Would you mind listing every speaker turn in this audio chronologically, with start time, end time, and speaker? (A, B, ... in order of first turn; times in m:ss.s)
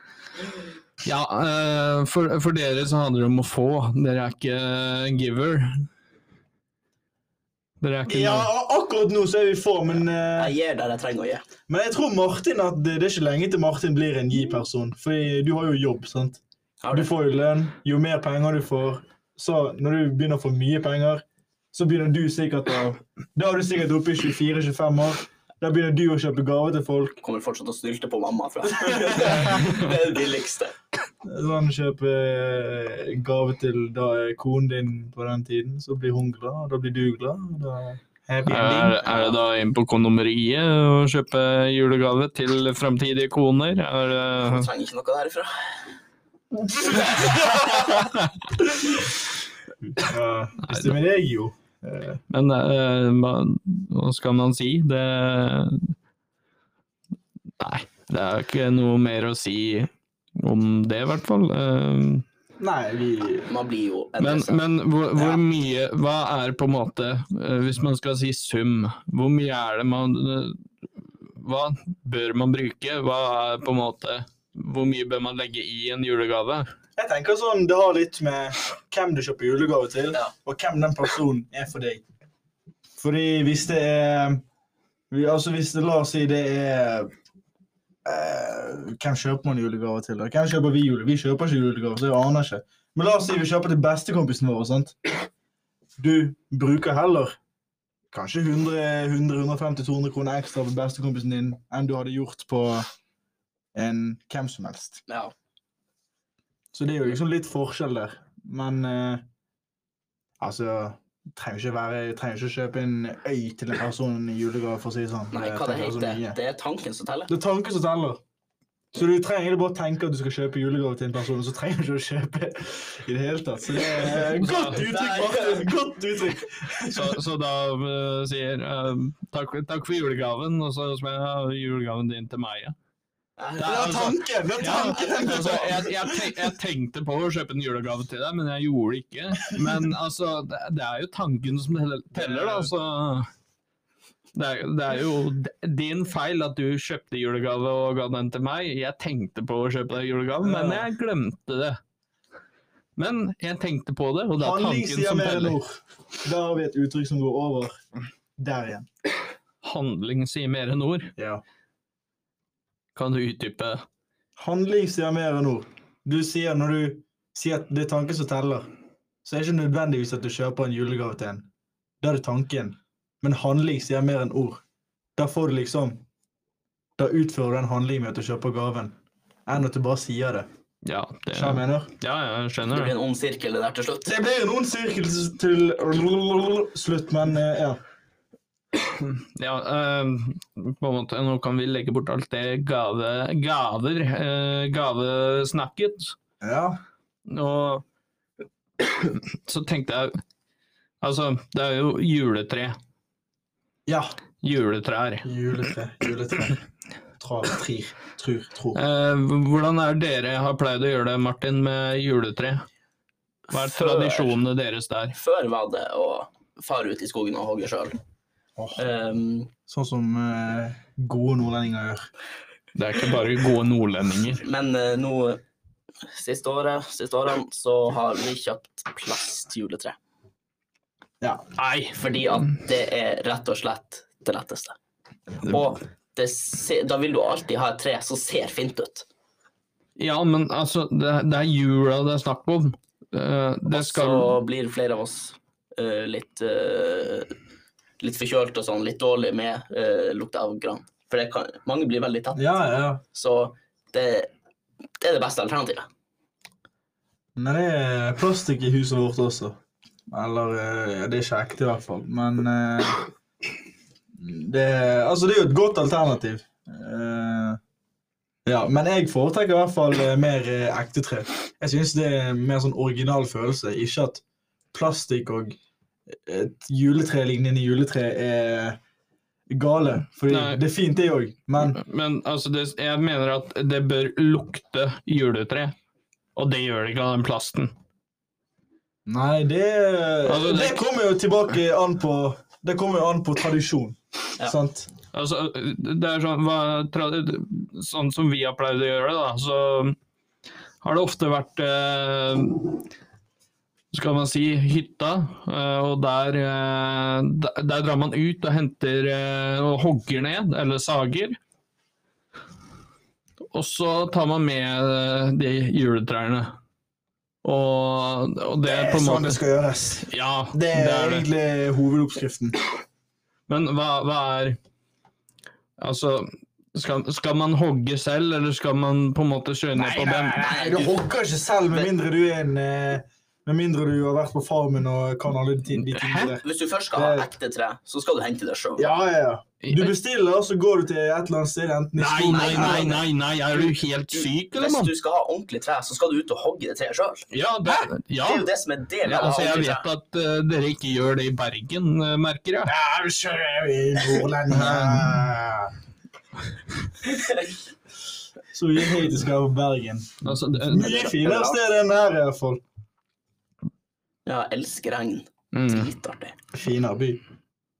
0:01.0-0:05.9 A
0:07.8-0:08.5 A
0:08.1-0:10.5 B
0:10.3-0:11.4 C
0:11.7-0:16.4 B
0:16.8-0:17.1 C
0:16.9-0:27.2 B
0:27.2-0:30.7 C
0:28.7-0:29.7 B
0:31.2-0:39.0 B
0:38.4-0:44.7 A
0:39.0-0:39.4 C
0:44.4-0:45.8 C
0:46.7-0:48.0 B
0:47.8-0:48.2 A
0:48.7-0:49.0 B
0:49.8-0:52.2 B
0:50.6-0:51.0 A
0:52.3-0:55.9 A
0:57.6-1:02.2 A
1:02.6-1:03.5 B
1:03.4-1:04.6 C
1:04.2-1:10.6 A
1:05.2-1:05.4 B
1:11.3-1:16.7 A
1:17.0-1:22.0 B
1:23.0-1:24.4 B
1:25.1-1:27.1 B
1:28.0-1:35.1 B
1:36.0-1:37.4 B
1:38.1-1:42.9 B
1:43.7-1:45.0 B
1:45.1-1:45.3 C
1:46.7-1:49.2 B
1:50.4-1:56.4 B
1:55.3-1:57.3 C
1:57.3-1:58.2 B
1:58.9-2:07.2 B
2:04.4-2:04.8 A
2:04.6-2:05.8 C
2:06.9-2:12.7 A
2:13.4-2:13.9 C
2:13.6-2:23.3 A
2:13.6-2:16.4 B
2:15.0-2:15.5 C
2:22.1-2:22.7 B
2:24.3-2:31.8 A
2:30.4-2:30.9 B
2:33.0-2:35.6 A
2:34.4-2:37.8 B
2:38.4-2:38.9 B
2:39.6-2:41.1 A
2:41.2-2:41.4 B
2:42.9-2:43.8 A
2:44.4-2:48.7 B
2:49.2-2:51.5 B
2:52.0-2:54.6 B
2:55.2-2:56.0 B
2:57.0-3:00.5 B
3:00.8-3:02.9 A
3:01.3-3:01.9 B
3:02.7-3:04.1 C
3:04.0-3:07.8 B
3:08.9-3:16.1 A
3:16.4-3:16.8 B
3:17.3-3:17.8 A
3:18.8-3:20.2 A
3:21.0-3:22.8 A
3:23.8-3:24.2 B
3:24.4-3:25.3 A
3:25.2-3:26.6 B
3:27.2-3:28.8 B
3:28.7-3:32.6 A
3:33.5-3:34.4 C
3:33.5-3:35.2 A
3:35.1-3:38.0 C
3:38.6-3:38.8 B
3:38.8-3:39.5 C
3:39.7-3:42.1 B
3:42.7-3:44.4 A
3:44.4-3:45.4 C
3:46.1-3:50.0 C
3:51.6-3:52.0 A
3:51.9-3:54.8 C
3:55.4-3:59.1 C
4:00.0-4:04.4 A
4:03.7-4:07.3 C
4:08.0-4:14.3 C
4:12.3-4:13.0 B
4:15.0-4:15.9 C
4:17.4-4:19.6 B
4:20.1-4:23.1 B
4:24.2-4:27.6 B
4:28.4-4:35.6 B
4:36.1-4:38.8 B
4:39.5-4:41.8 B
4:40.3-4:40.6 A
4:41.6-4:45.7 A
4:46.4-4:47.7 A
4:49.1-4:54.9 B
4:50.2-4:50.9 A
4:55.1-5:00.0 A
5:00.8-5:02.8 A
5:03.9-5:11.4 A
5:13.5-5:16.6 A
5:17.4-5:19.4 A
5:18.6-5:22.6 B
5:20.0-5:21.3 A
5:23.5-5:24.6 A
5:25.8-5:30.5 A
5:29.7-5:37.3 B
5:30.4-5:31.0 C
5:35.8-5:36.4 A
5:36.4-5:38.9 C
5:38.8-5:43.0 B
5:39.6-5:39.9 A
5:42.0-5:44.9 A
5:42.3-5:47.3 C
5:47.3-5:48.5 A
5:48.2-5:49.8 C
5:49.0-5:52.7 A
5:52.6-5:55.7 B
5:54.5-5:55.2 A
5:57.0-5:57.5 C
5:58.5-6:02.6 B
6:00.2-6:01.1 A
6:00.8-6:01.6 C
6:04.2-6:06.4 C
6:05.5-6:05.9 A
6:06.5-6:07.2 B